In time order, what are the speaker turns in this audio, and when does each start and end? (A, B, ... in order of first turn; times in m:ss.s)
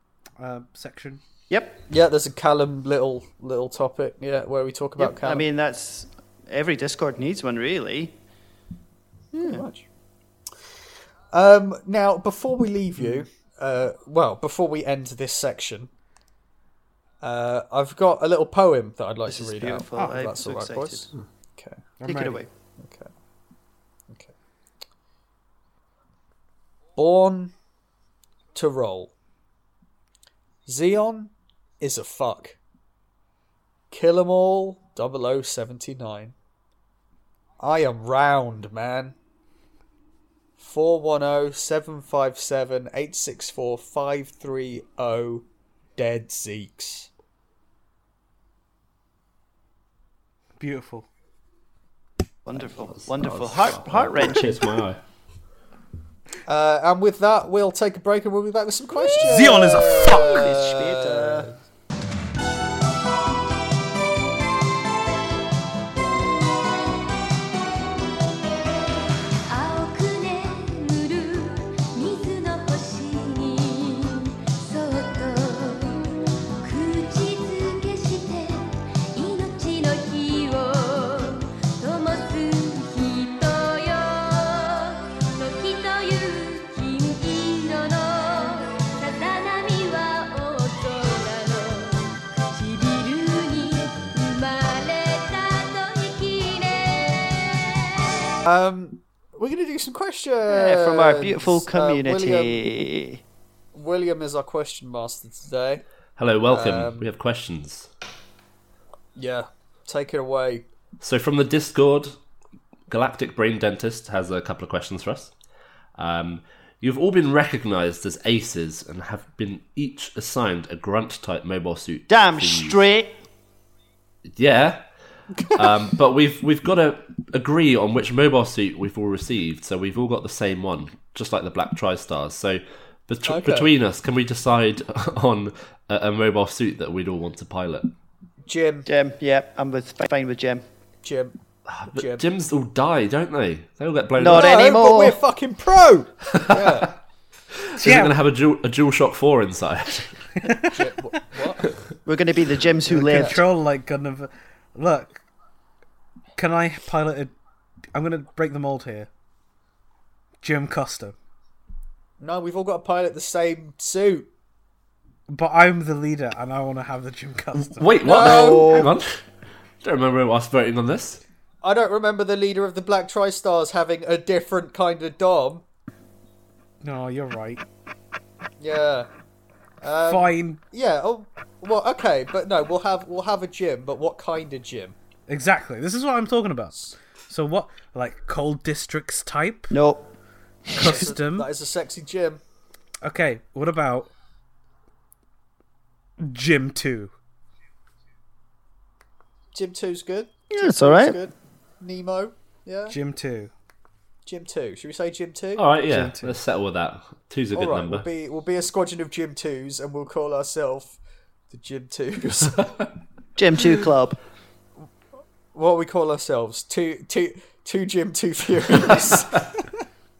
0:00.4-0:01.2 A
0:01.5-0:01.8 B
0:01.9-0:05.4 C
0:05.0-0:08.1 B
0:09.3-0:09.6 B
0:09.3-0:09.9 C
0:11.3-0:15.9 C
0:13.0-0:13.2 A
0:17.2-0:21.8 C
0:19.3-0:21.1 B
0:22.0-0:22.4 A
0:22.0-0:22.5 B
0:22.8-0:23.1 C
0:27.0-0:27.5 C
0:28.5-0:29.1 C
0:30.6-0:32.6 C
0:33.9-0:36.3 C
0:37.6-0:39.2 C
0:40.6-0:45.4 C
0:46.0-0:47.1 C
0:50.6-0:51.1 A
0:52.4-0:54.7 B
0:52.6-0:55.0 D
0:56.4-1:01.5 C
0:59.2-1:00.5 A
1:00.0-1:01.5 B
1:09.5-1:38.2 E
1:38.4-1:42.6 C
1:40.5-1:43.2 B
1:43.7-1:45.8 C
1:46.2-1:47.9 D
1:46.5-1:47.1 C
1:49.2-1:50.7 C
1:51.0-1:52.2 D
1:52.9-1:55.3 D
1:56.0-2:02.8 D
2:02.1-2:03.2 B
2:04.3-2:04.8 D
2:05.3-2:05.8 C
2:05.5-2:17.9 D
2:13.2-2:13.7 C
2:18.4-2:18.9 C
2:18.9-2:20.6 B
2:21.0-2:21.3 C
2:21.7-2:24.6 D
2:21.9-2:22.2 C
2:24.2-2:25.2 B
2:24.3-2:26.9 C
2:26.3-2:26.9 D
2:27.7-2:30.1 D
2:27.8-2:28.2 A
2:30.4-2:31.2 A
2:30.7-2:31.7 C
2:32.0-2:33.4 B
2:32.9-2:35.2 A
2:33.0-2:33.4 C
2:36.4-2:37.3 A
2:37.9-2:39.1 A
2:40.4-2:41.1 A
2:42.2-2:44.3 C
2:45.3-2:48.0 A
2:47.6-2:49.2 D
2:48.0-2:48.9 C
2:49.8-2:51.2 D
2:51.6-2:55.6 C
2:56.8-2:57.6 A
2:58.6-2:59.1 C
2:59.8-3:05.0 C
3:00.0-3:00.6 A
3:05.3-3:09.7 A
3:09.7-3:10.1 B
3:10.7-3:11.1 B
3:10.7-3:11.5 A
3:10.8-3:12.4 C
3:13.0-3:14.1 A
3:16.2-3:17.1 A
3:19.5-3:23.0 C
3:20.5-3:21.2 B
3:22.9-3:23.5 A
3:24.2-3:26.3 C
3:25.6-3:28.0 D
3:25.9-3:26.2 A
3:27.5-3:31.0 C
3:31.5-3:32.8 C
3:33.4-3:34.2 B
3:35.5-3:39.6 C
3:38.8-3:39.5 D